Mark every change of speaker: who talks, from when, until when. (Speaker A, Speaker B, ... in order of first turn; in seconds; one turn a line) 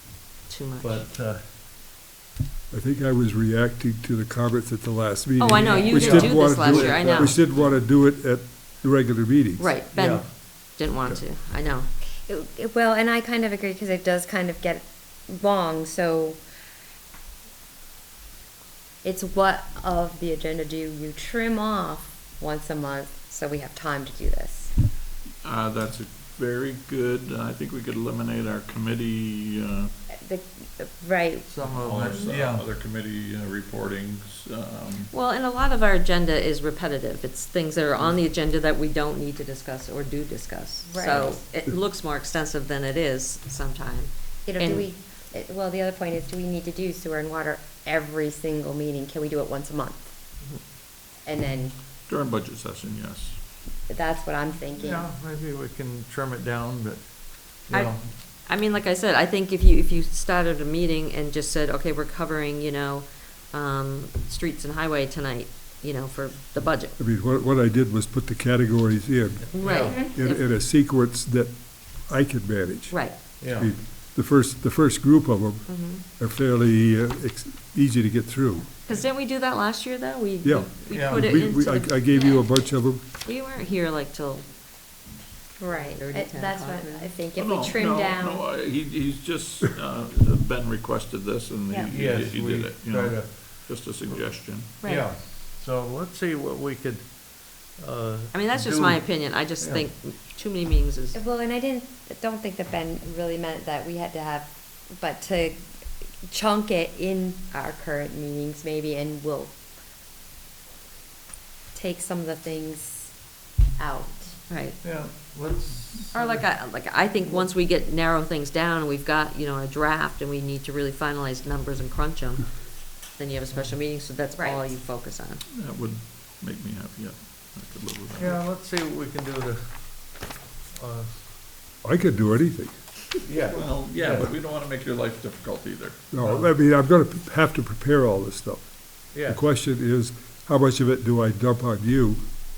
Speaker A: 0.5-1.0
Speaker B: 0.8-1.4
Speaker C: 2.7-9.8
Speaker A: 5.4-7.3
Speaker B: 5.5-7.8
Speaker A: 9.6-11.9
Speaker B: 9.9-10.3
Speaker D: 12.3-16.4
Speaker D: 19.0-24.7
Speaker E: 25.4-29.9
Speaker D: 30.1-31.5
Speaker B: 31.5-32.7
Speaker E: 31.7-35.1
Speaker A: 35.1-44.9
Speaker D: 40.9-41.4
Speaker D: 44.5-50.1
Speaker D: 51.2-51.8
Speaker E: 52.1-53.4
Speaker D: 53.9-55.1
Speaker B: 54.7-58.1
Speaker A: 57.7-67.0
Speaker C: 67.0-78.7
Speaker A: 69.5-70.4
Speaker B: 69.6-70.0
Speaker A: 72.9-73.2
Speaker B: 73.4-73.7
Speaker A: 75.7-76.0
Speaker A: 78.8-82.4
Speaker C: 80.4-83.0
Speaker B: 80.9-81.3
Speaker A: 83.2-84.5
Speaker D: 85.6-88.4
Speaker A: 85.7-87.1
Speaker E: 87.4-94.8
Speaker B: 91.9-94.2
Speaker D: 94.8-95.1
Speaker B: 94.8-99.9
Speaker A: 98.3-101.2
Speaker D: 101.1-105.7
Speaker D: 106.3-109.5
Speaker D: 111.7-113.1
Speaker D: 113.8-114.4
Speaker A: 114.5-114.8
Speaker B: 114.8-116.6
Speaker A: 116.1-125.4
Speaker D: 124.3-124.7
Speaker E: 125.5-128.4
Speaker B: 128.2-130.2
Speaker B: 130.7-131.1
Speaker C: 131.8-132.9
Speaker B: 133.2-134.3
Speaker E: 133.5-136.0
Speaker C: 136.1-142.3
Speaker B: 136.2-136.5
Speaker B: 139.1-139.4